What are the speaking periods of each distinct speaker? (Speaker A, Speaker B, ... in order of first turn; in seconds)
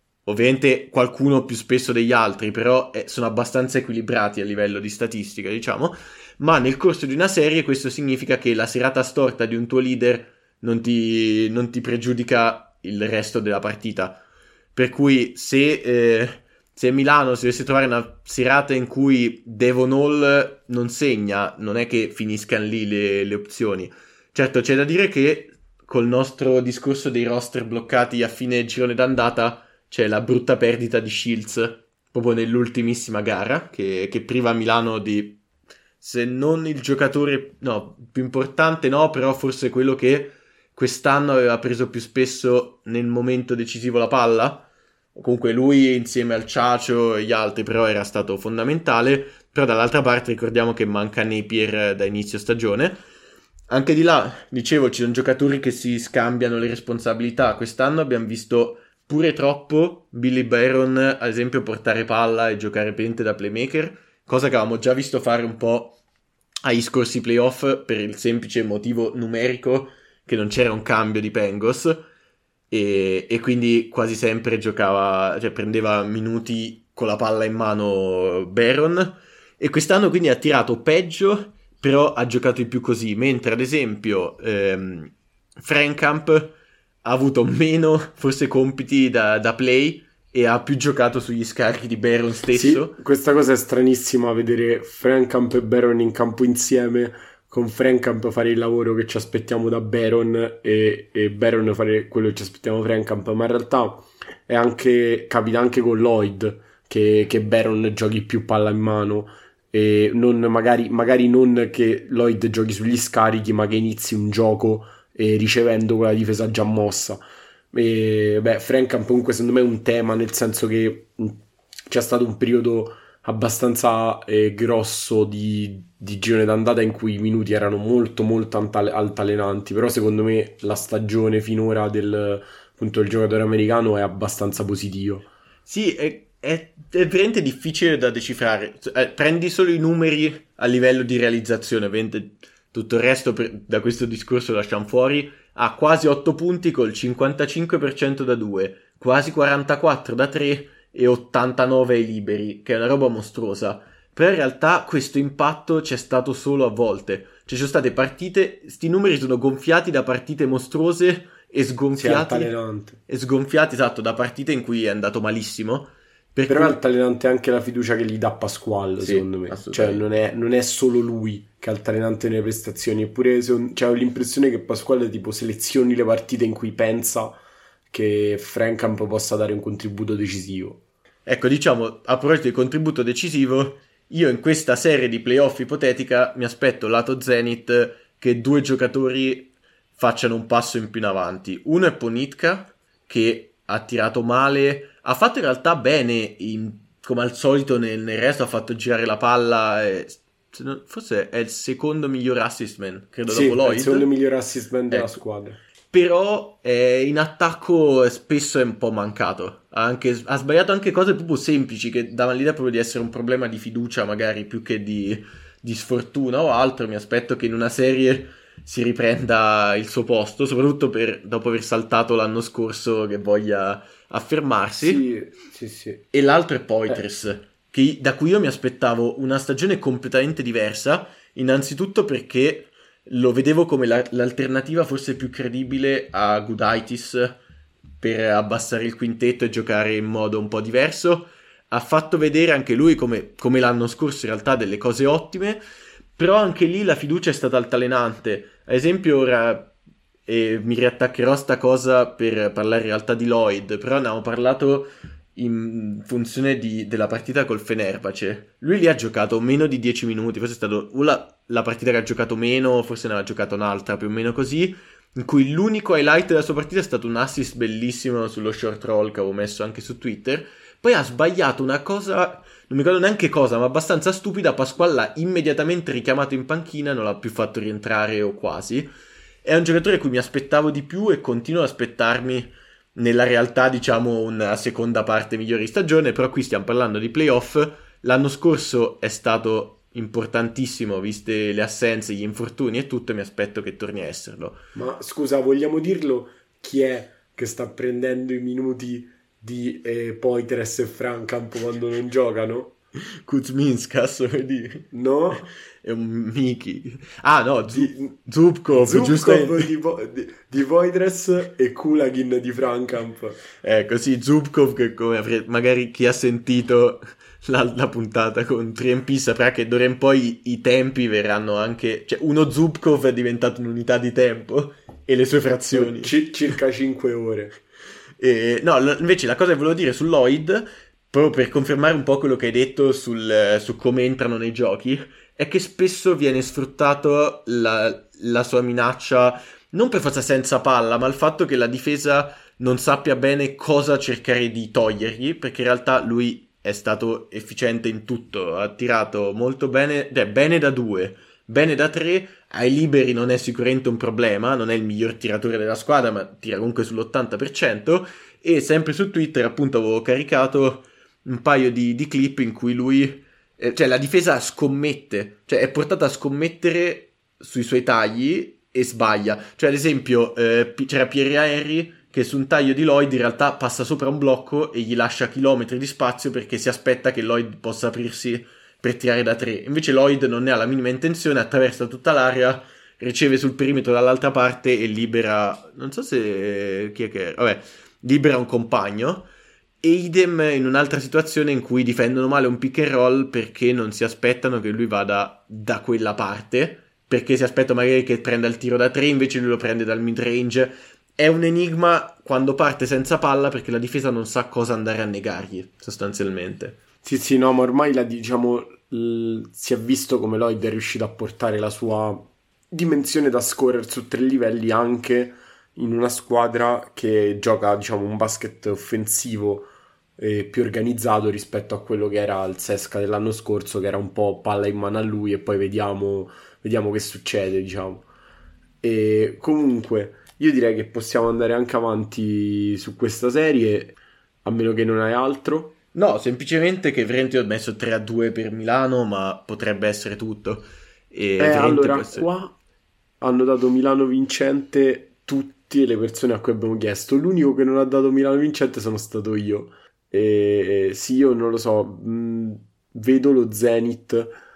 Speaker A: 0.3-14.2, 14.8-35.4, 36.0-53.0, 53.7-66.0, 66.7-72.0, 72.7-93.0, 135.7-162.5, 163.1-166.8, 169.0-170.1, 181.3-204.1, 204.9-205.2, 205.9-225.0, 226.1-237.4, 238.0-245.6, 246.2-249.7, 250.3-278.9, 279.4-294.6, 303.2-309.7, 313.6-326.1, 328.2-389.3, 389.8-406.8, 435.9-442.3
Speaker B: 92.5-117.2, 117.7-135.3, 162.0-163.0, 166.5-177.4, 177.9-180.8, 203.3-205.6, 224.8-226.0, 294.8-302.8, 304.9-305.5, 307.7-308.1, 308.7-313.4, 325.7-327.6, 407.0-428.1, 428.8-435.8, 441.4-442.6, 443.2-454.4